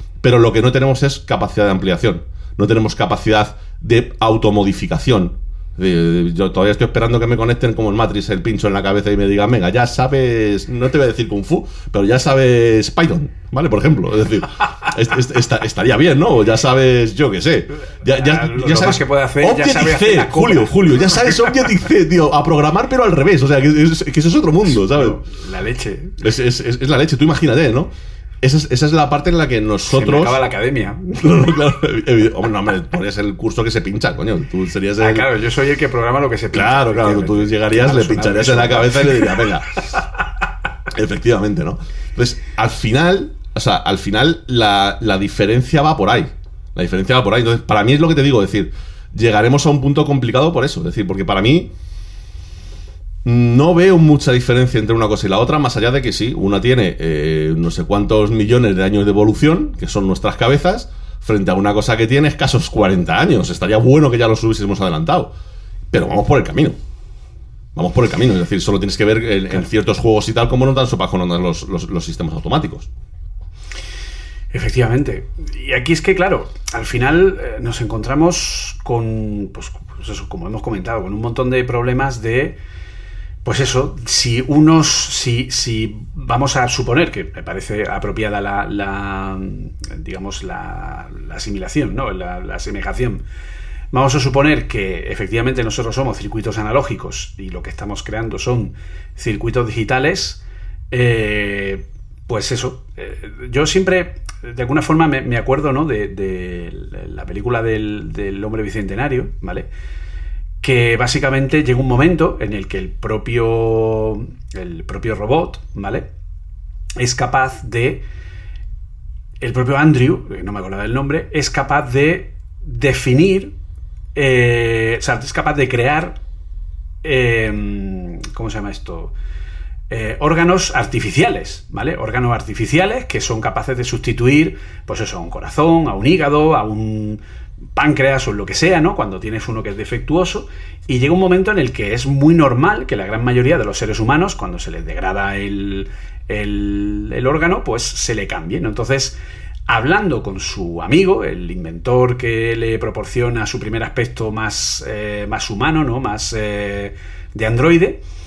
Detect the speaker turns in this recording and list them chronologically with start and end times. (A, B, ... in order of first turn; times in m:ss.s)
0:00.2-0:25.2 A
0:18.1-0:20.9 B
0:24.7-0:26.2 B
0:26.2-0:27.9 A
0:28.4-0:30.4 A
0:29.9-0:31.5 B
0:31.2-0:35.3 A
0:35.0-0:39.5 B
0:36.5-0:39.7 A
0:40.9-0:51.7 A
0:53.2-1:05.3 A
1:05.9-1:06.8 A
1:07.8-1:12.9 A
1:14.5-1:22.6 B
1:23.4-1:33.2 B
1:33.9-1:40.4 B
1:40.9-1:49.7 B
1:50.6-1:56.1 B
1:57.0-1:58.0 B
1:59.4-2:03.5 B
2:04.2-2:06.2 B
2:07.0-2:09.1 B
2:09.9-2:17.2 B
2:17.8-2:29.2 B
2:29.7-2:38.0 B